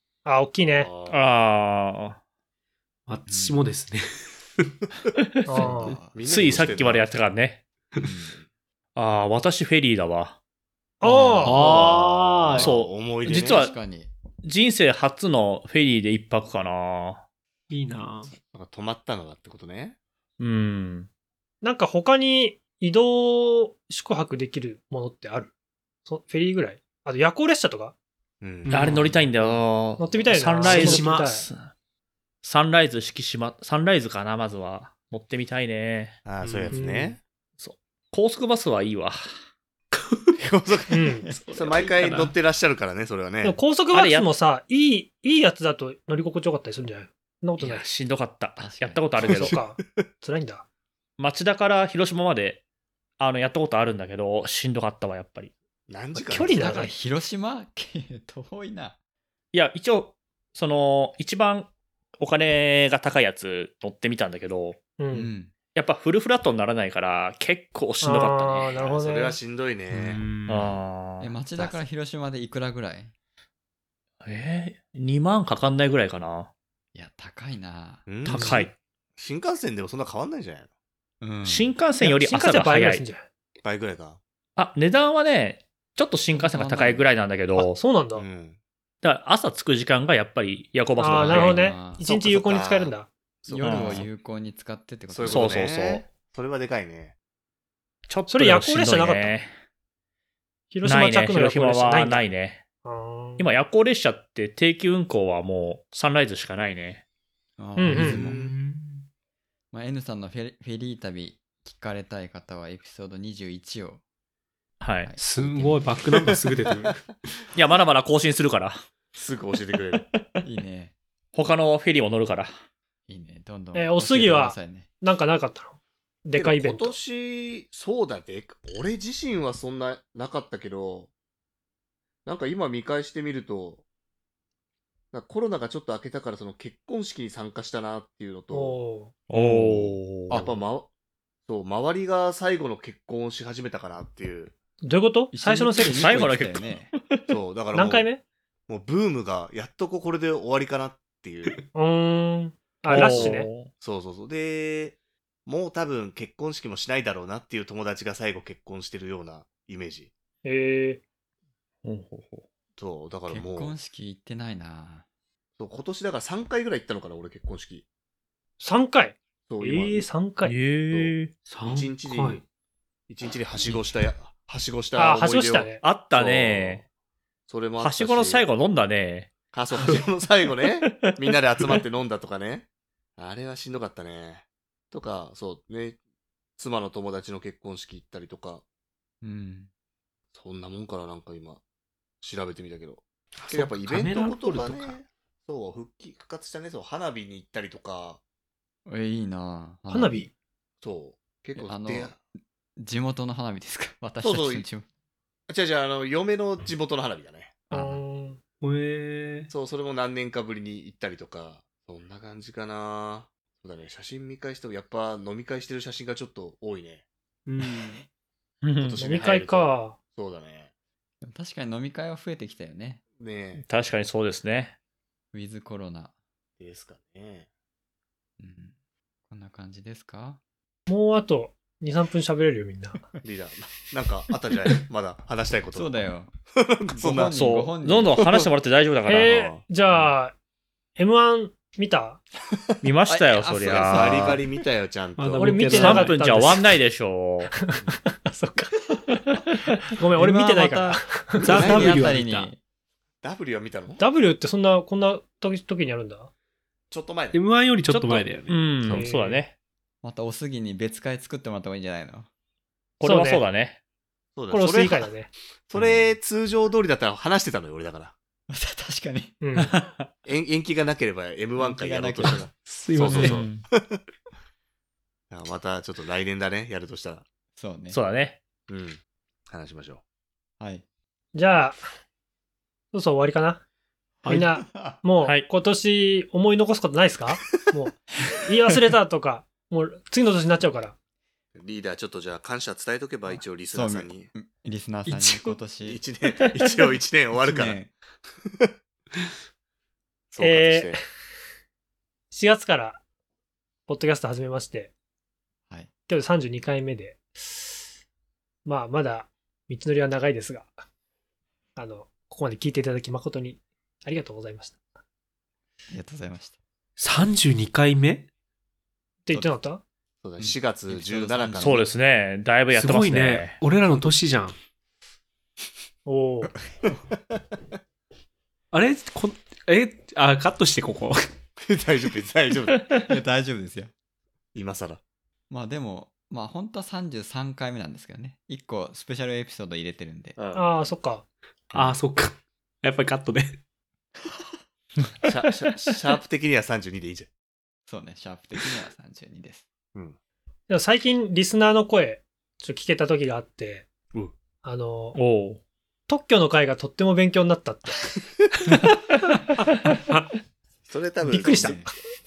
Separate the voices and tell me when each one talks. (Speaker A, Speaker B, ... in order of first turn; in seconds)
Speaker A: 0.2-0.9, 5.5-6.0, 11.0-11.6, 21.6-25.5, 26.1-27.9, 30.0-31.5, 36.7-37.2, 40.9-41.3, 43.4-47.9, 49.2-50.6, 56.2-56.9, 65.0-65.3, 68.0-69.4, 78.3-78.7, 82.0-83.3, 87.5-88.2, 91.0-93.1, 98.3-99.3, 100.7-102.2, 102.8-103.5, 107.8-108.2, 123.8-127.0, 138.5-139.1, 144.8-146.1, 147.7-148.2, 151.8-153.5, 160.4-161.0, 168.6-170.6, 175.0-175.8, 199.9-200.3, 207.7-208.4, 219.0-220.0, 230.9-233.0, 239.1-240.3, 241.0-242.2, 245.4-246.7, 247.6-248.8, 249.9-251.5, 254.0-256.3, 258.9-259.4, 263.0-263.4, 264.5-265.3, 269.4-269.8, 281.4-281.8, 282.9-283.6, 284.3-290.9, 300.4-301.0, 302.3-303.0, 303.9-304.9, 306.1-307.8, 308.6-310.7, 311.8-314.8, 319.2-319.8, 326.1-326.5, 340.5-341.2, 350.7-353.9, 354.6-355.2, 356.1-358.0, 361.3-362.0
Speaker B: 0.6-1.2, 6.1-7.0, 11.5-13.7, 18.5-20.0, 28.4-29.1, 36.2-37.2, 40.4-43.6, 49.2-50.0, 55.9-56.9, 68.7-70.2, 78.1-78.6, 79.2-80.7, 83.6-84.2, 88.2-88.6, 92.0-92.9, 93.4-94.1, 95.1-97.1, 119.2-120.0, 126.3-131.1, 132.2-133.8, 135.1-138.8, 139.3-140.9, 141.5-144.5, 147.3-148.1, 148.7-151.6, 153.0-160.1, 162.8-163.8, 165.6-167.8, 169.5-170.1, 171.7-172.4, 173.1-176.9, 177.5-178.5, 179.5-182.7, 183.2-186.0, 186.6-188.6, 190.3-191.6, 192.2-198.2, 200.8-202.2, 204.2-204.7, 205.5-207.6, 209.5-217.0, 218.8-220.7, 223.2-223.7, 226.6-227.5, 233.2-237.4, 238.2-238.5, 239.2-239.6, 243.6-245.7, 251.4-252.1, 253.2-254.0, 256.9-257.4, 264.4-265.1, 265.7-268.1, 270.2-274.0, 275.3-277.2, 278.7-280.0, 291.6-294.3, 295.8-297.8, 298.4-298.7, 300.3-301.0, 320.2-321.9, 331.6-332.9, 334.5-335.0, 340.4-340.7, 345.2-347.3, 360.9-361.8
Speaker C: 1.1-2.2, 5.2-5.7, 6.2-7.6, 9.0-10.4, 12.5-13.8, 14.4-17.2, 20.4-21.1, 28.7-31.7, 32.4-36.2, 37.6-39.3, 43.9-44.3, 47.6-49.6, 51.2-52.6, 53.2-55.5, 59.5-64.8, 65.8-68.8, 70.5-71.8, 74.2-76.5, 78.3-78.7, 81.5-83.0, 84.6-87.8, 89.0-91.7, 93.6-94.1, 95.2-96.0, 98.1-99.5, 100.8-102.6, 103.4-107.0, 114.8-115.1, 117.5-118.8, 119.9-120.2, 121.3-122.5, 139.3-140.4, 145.8-147.3, 152.9-153.7, 161.8-162.5, 170.4-171.3, 175.8-176.8, 177.8-179.3, 218.6-219.0, 223.7-224.8, 237.3-239.5, 242.8-244.4, 245.7-247.5, 257.9-259.5, 263.0-263.8, 269.6-270.1, 273.0-273.6, 277.9-278.4, 321.6-323.6, 355.1-355.6
Speaker D: 3.1-4.7, 11.4-12.7, 17.7-18.3, 28.7-29.2, 30.6-31.3, 36.4-36.8, 41.3-42.3, 78.4-78.6, 107.9-109.0, 115.2-117.1, 171.5-172.4, 193.4-195.0, 208.6-209.5, 217.5-218.1, 245.2-246.5, 250.2-252.5, 257.3-258.7, 272.6-273.5, 295.1-295.6, 317.0-318.3, 322.7-324.6, 328.7-331.3, 341.7-343.6
Speaker E: 3.3-3.6, 5.5-6.2, 8.0-8.3, 11.0-11.9, 12.5-14.1, 48.6-49.3, 56.3-59.0, 65.1-65.5, 69.9-70.3, 71.2-73.1, 77.0-78.1, 81.2-81.7, 86.3-87.1, 91.1-92.0, 93.5-95.7, 107.6-108.5, 109.7-114.0, 115.0-116.4, 120.4-120.9, 123.1-124.9, 140.3-140.7, 145.3-146.9, 163.3-165.1, 173.7-173.9, 189.2-189.7, 198.9-200.3, 201.6-202.2, 202.8-204.9, 207.7-208.0, 221.2-223.0, 225.3-226.1, 228.4-228.7, 229.3-230.4, 235.7-236.3, 236.9-238.2, 243.1-244.6, 251.4-252.6, 260.0-262.3, 265.8-266.1, 268.5-269.4, 271.6-272.5, 277.6-278.0, 280.6-280.9, 284.3-285.0, 293.7-296.0, 297.4-297.9, 315.9-316.6, 320.4-321.9, 332.9-333.9, 335.5-340.4, 347.9-349.6, 361.4-361.9